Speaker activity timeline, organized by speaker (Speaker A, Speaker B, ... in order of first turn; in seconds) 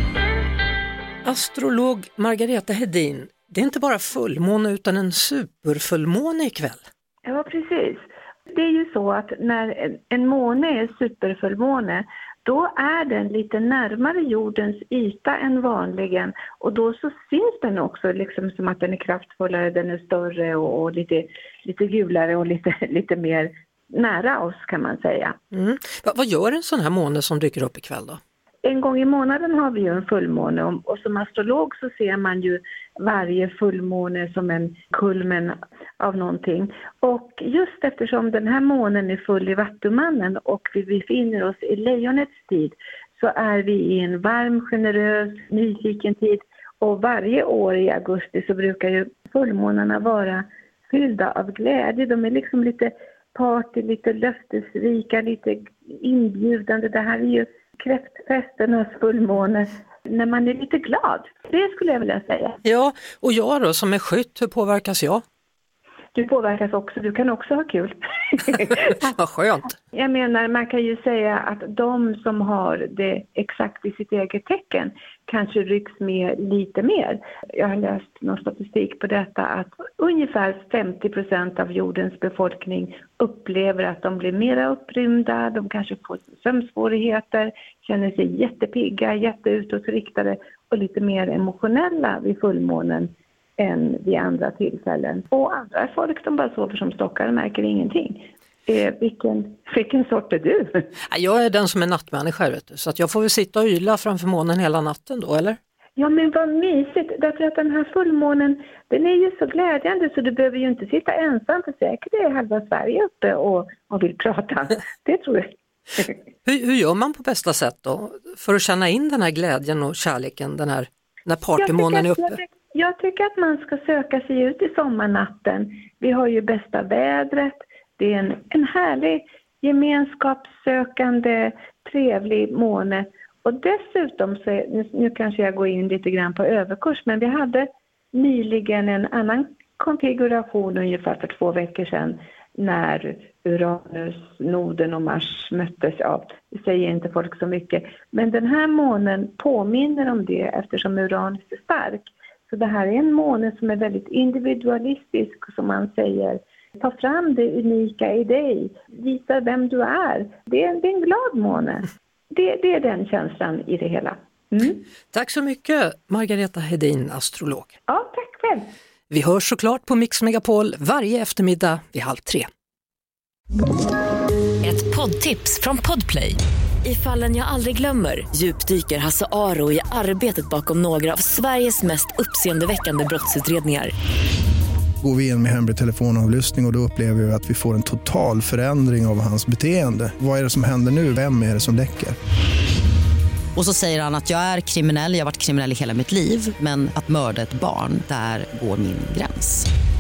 Speaker A: 1.2-6.9, 25.5-28.2, 62.6-65.2, 68.6-69.8, 101.1-105.6, 116.5-122.4, 165.1-167.7, 169.1-172.5
Speaker B: 7.2-25.4, 28.6-62.6, 66.2-68.9, 69.9-100.9, 106.0-116.1, 121.6-164.8, 167.9-168.7
Speaker C: 174.6-183.9
Speaker D: 185.0-192.2
Speaker E: 193.6-199.7